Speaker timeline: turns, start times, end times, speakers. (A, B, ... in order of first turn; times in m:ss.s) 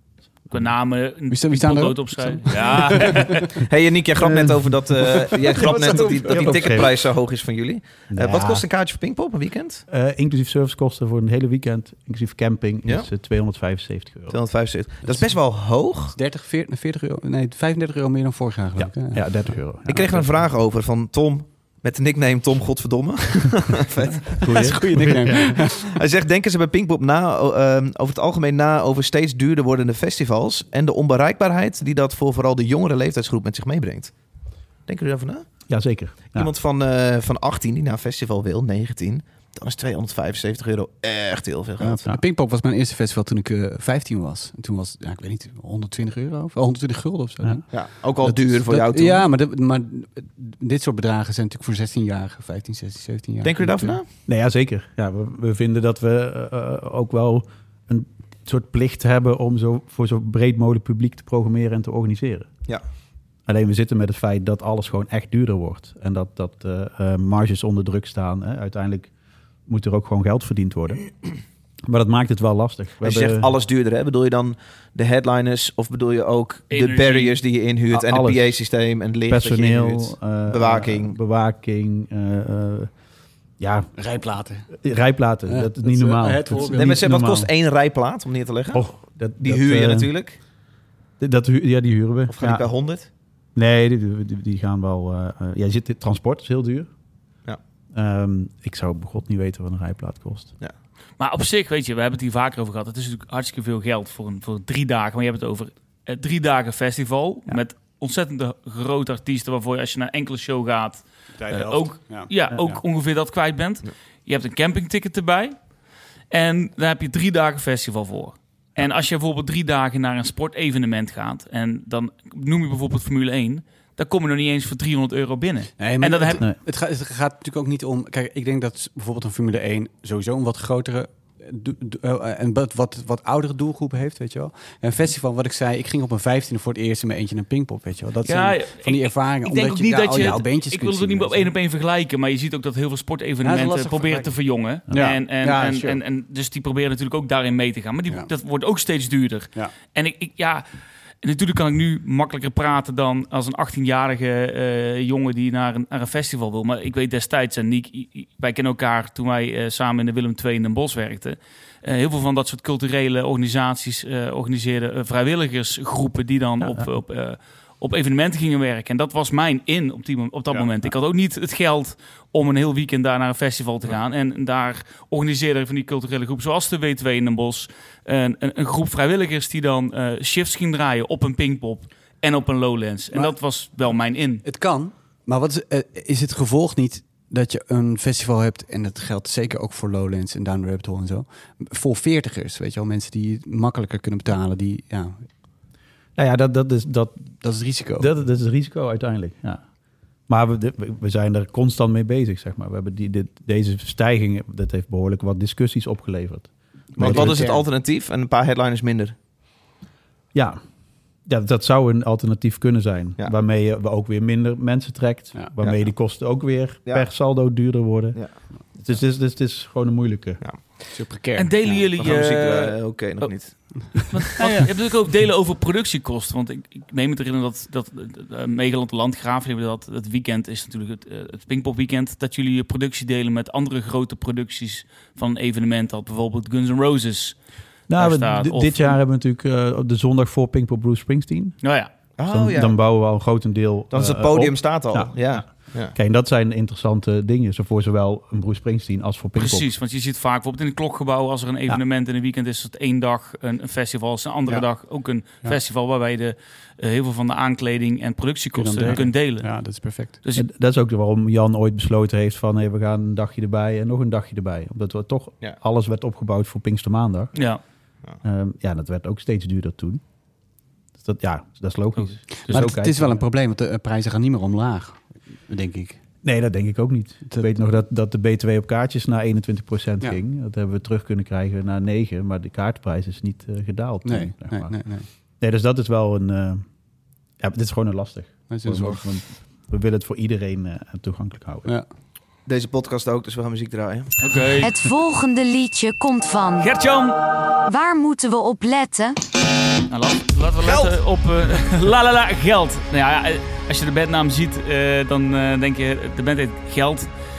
0:00.4-0:03.5 A
0:01.3-0:03.5 B
0:03.6-0:09.8 C
0:04.2-0:05.0 D
0:05.0-0:06.8 B
0:05.6-0:06.9 D
0:08.1-0:08.6 D
0:09.9-0:14.4 D
0:14.3-0:16.1 C
0:16.1-0:19.6 B
0:18.8-0:20.4 D
0:19.9-0:24.9 C
0:24.4-0:25.6 D
0:24.4-0:25.9 B
0:25.5-0:34.1 C
0:34.9-0:35.5 C
0:35.7-0:36.5 D
0:36.3-0:42.0 C
0:41.8-0:54.0 B
0:47.7-0:49.3 C
0:53.4-0:54.0 C
0:54.2-1:02.6 D
1:03.4-1:09.1 D
1:09.7-1:11.1 D
1:11.9-1:13.5 D
1:13.0-1:21.2 C
1:16.7-1:17.4 A
1:17.9-1:18.6 D
1:19.3-1:22.9 D
1:23.6-1:23.9 D
1:24.0-1:24.7 B
1:24.7-1:27.5 D
1:25.5-1:27.0 B
1:26.7-1:28.8 C
1:28.7-1:30.1 D
1:29.4-1:30.4 C
1:31.2-1:32.7 D
1:32.3-1:33.1 C
1:33.5-1:36.9 D
1:37.9-1:40.6 D
1:41.2-1:55.6 A
1:51.4-1:52.8 B
1:56.3-2:06.4 A
2:05.8-2:21.5 B
2:18.2-2:30.6 A
2:23.4-2:24.3 B
2:24.9-2:26.0 B
2:31.2-3:04.4 A
2:46.6-2:46.8 D
3:04.4-3:15.3 B
3:16.2-3:17.3 D
3:17.4-3:18.1 B
3:18.0-3:19.6 D
3:20.3-3:27.5 D
3:27.0-3:27.6 B
3:27.0-3:29.2 C
3:30.3-3:30.6 D
3:31.2-3:40.4 D
3:35.6-3:35.9 C
3:40.9-3:42.1 B
3:41.4-3:42.8 A
3:42.0-3:44.0 C
3:43.7-3:44.7 B
3:44.1-3:57.4 A
3:57.9-4:01.6 D
3:57.9-3:59.0 A
4:01.6-4:01.9 A
4:02.2-4:02.8 C
4:02.2-4:09.7 D
4:03.9-4:05.9 C
4:09.4-4:19.5 A
4:18.5-4:20.2 B
4:20.3-4:27.4 D
4:27.3-4:27.6 A
4:28.2-4:30.0 D
4:31.0-4:33.2 D
4:32.0-4:32.6 A
4:32.4-4:36.0 B
4:36.2-4:44.8 D
4:44.0-4:45.1 B
4:45.4-4:46.6 D
4:47.4-4:51.7 D
4:48.5-4:49.1 B
4:52.4-4:54.1 C
4:54.2-4:54.8 A
4:54.6-4:56.7 E
4:56.6-4:57.2 A
4:57.6-4:59.2 E
4:59.9-5:07.1 A
5:00.6-5:00.9 C